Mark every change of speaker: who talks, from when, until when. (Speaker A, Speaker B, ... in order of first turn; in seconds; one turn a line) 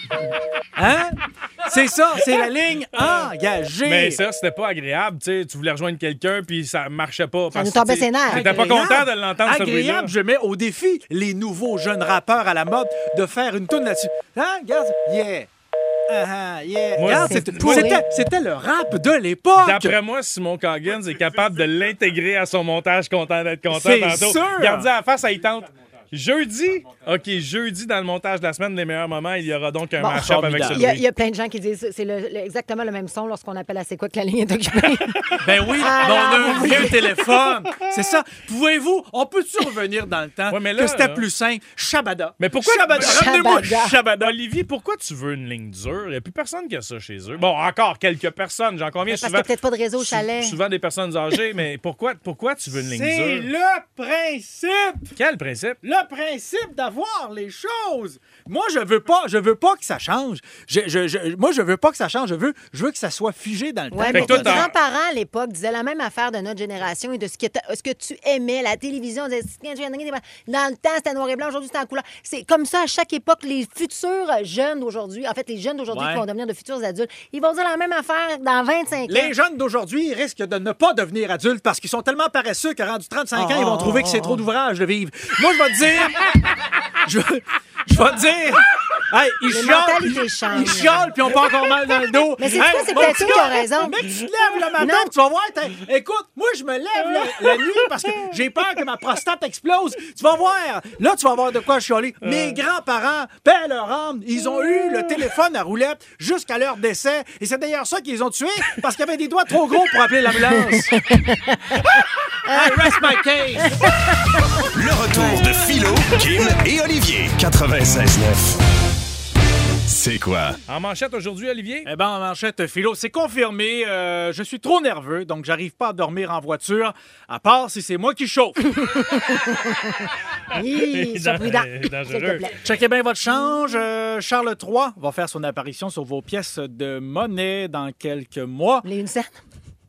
Speaker A: 0.8-4.2
Speaker B: 2.9-3.3
Speaker B: 3.9-10.1
Speaker C: 7.5-8.5
Speaker A: 8.3-15.5
Speaker A: 16.1-20.0
Speaker B: 17.0-17.9
Speaker C: 17.1-18.0
Speaker B: 19.6-31.0
Speaker A: 23.7-24.9
Speaker C: 30.0-37.0
Speaker A: 30.2-30.9
Speaker A: 35.4-44.4
Speaker B: 40.5-41.2
Speaker B: 42.4-43.3
Speaker C: 43.0-44.0
Speaker B: 44.2-53.5
Speaker C: 49.1-50.6
Speaker A: 52.7-55.2
Speaker B: 55.2-55.8
Speaker A: 55.8-64.7
Speaker C: 63.9-79.3
Speaker B: 64.1-64.7
Speaker A: 75.9-76.2
Speaker A: 79.1-111.0
Speaker C: 83.4-84.4
Speaker C: 89.5-91.1
Speaker C: 92.4-94.0
Speaker C: 94.8-95.1
Speaker B: 97.3-98.3
Speaker B: 102.2-102.6
Speaker C: 110.9-112.9
Speaker A: 112.5-113.9
Speaker C: 113.6-115.4
Speaker D: 114.7-118.6
Speaker D: 119.9-120.6
Speaker B: 120.7-121.9
Speaker A: 121.8-128.8
Speaker C: 128.8-132.6
Speaker B: 130.6-132.6
Speaker A: 132.6-138.9
Speaker C: 138.8-139.4